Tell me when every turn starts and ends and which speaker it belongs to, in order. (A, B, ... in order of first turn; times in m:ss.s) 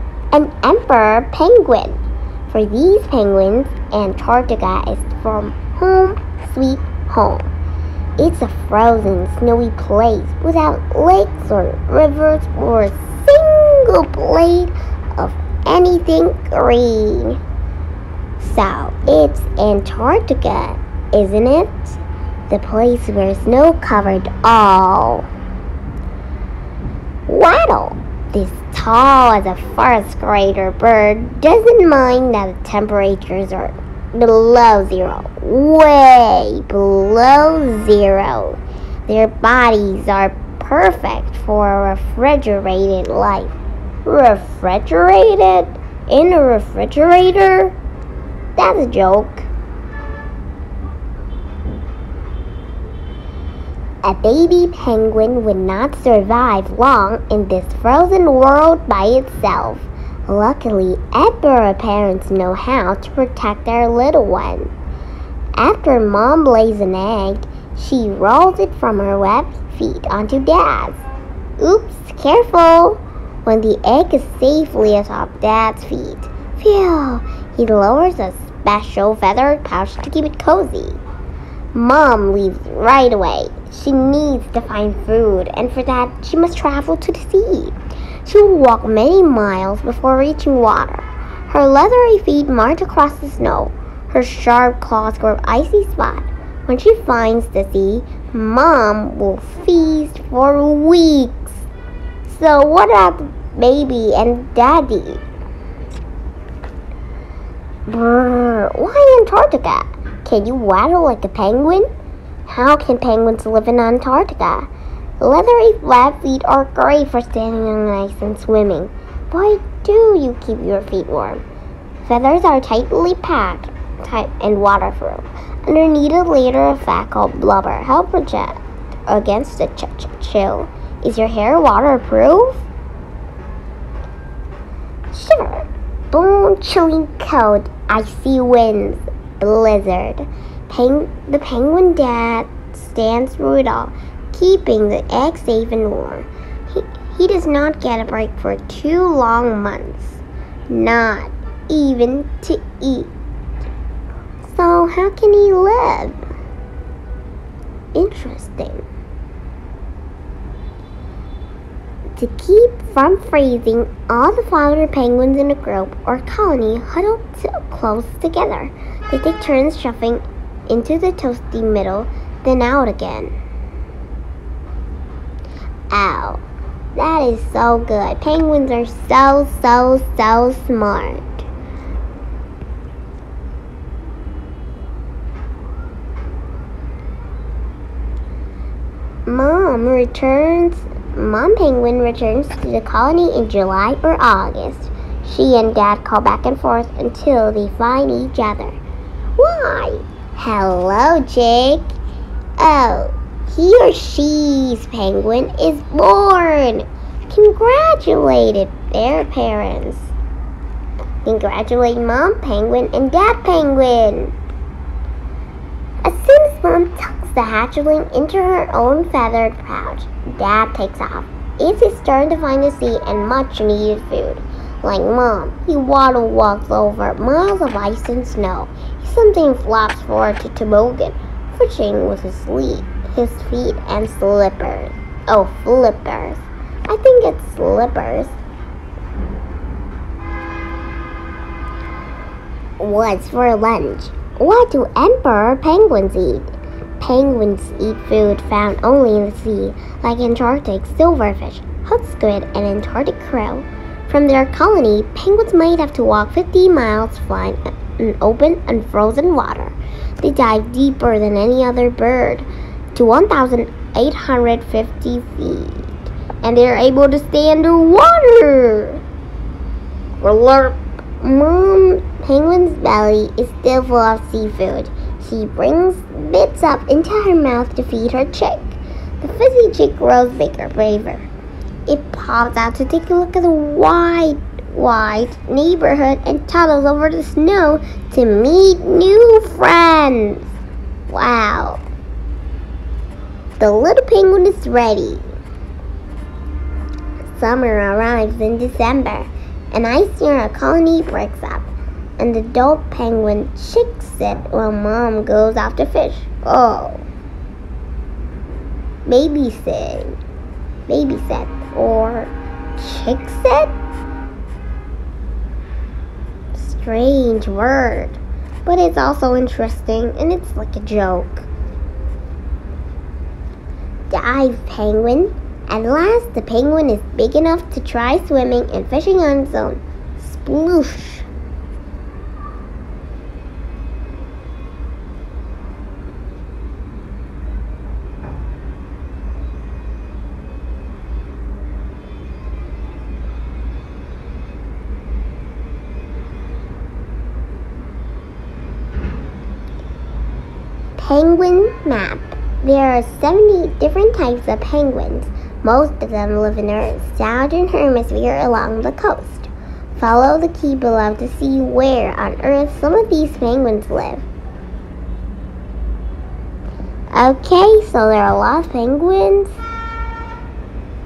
0:00.3-0:07.5 A
0:08.2-0:17.4 A
0:18.4-0:25.3 A
0:27.3-0:47.8 A
0:48.6-0:49.5 A
0:54.0-1:04.7 A
1:05.6-1:11.0 A
1:11.6-1:21.0 A
1:21.7-1:41.6 A
1:42.2-1:45.2 A
1:47.9-1:51.9 A
1:52.4-1:54.7 A
1:55.2-2:01.4 A
2:02.0-2:12.6 A
2:15.1-2:33.1 A
2:34.4-2:36.2 A
2:37.9-2:38.8 A
2:42.2-2:53.3 A
2:55.9-2:56.4 A
2:56.9-3:01.4 A
3:09.2-3:18.8 A
3:19.4-3:21.9 A
3:22.6-3:30.1 A
3:31.2-3:34.3 A
3:36.0-3:58.3 A
4:02.8-4:29.0 A
4:30.2-4:41.3 A
4:41.9-4:50.5 A
4:51.1-4:51.8 A
4:53.6-4:55.3 A
4:57.3-5:07.0 A
5:09.0-5:10.2 A
5:10.9-5:13.7 A
5:16.5-5:21.5 A
5:24.1-5:31.3 A
5:51.0-6:04.2 A
6:07.1-6:09.6 A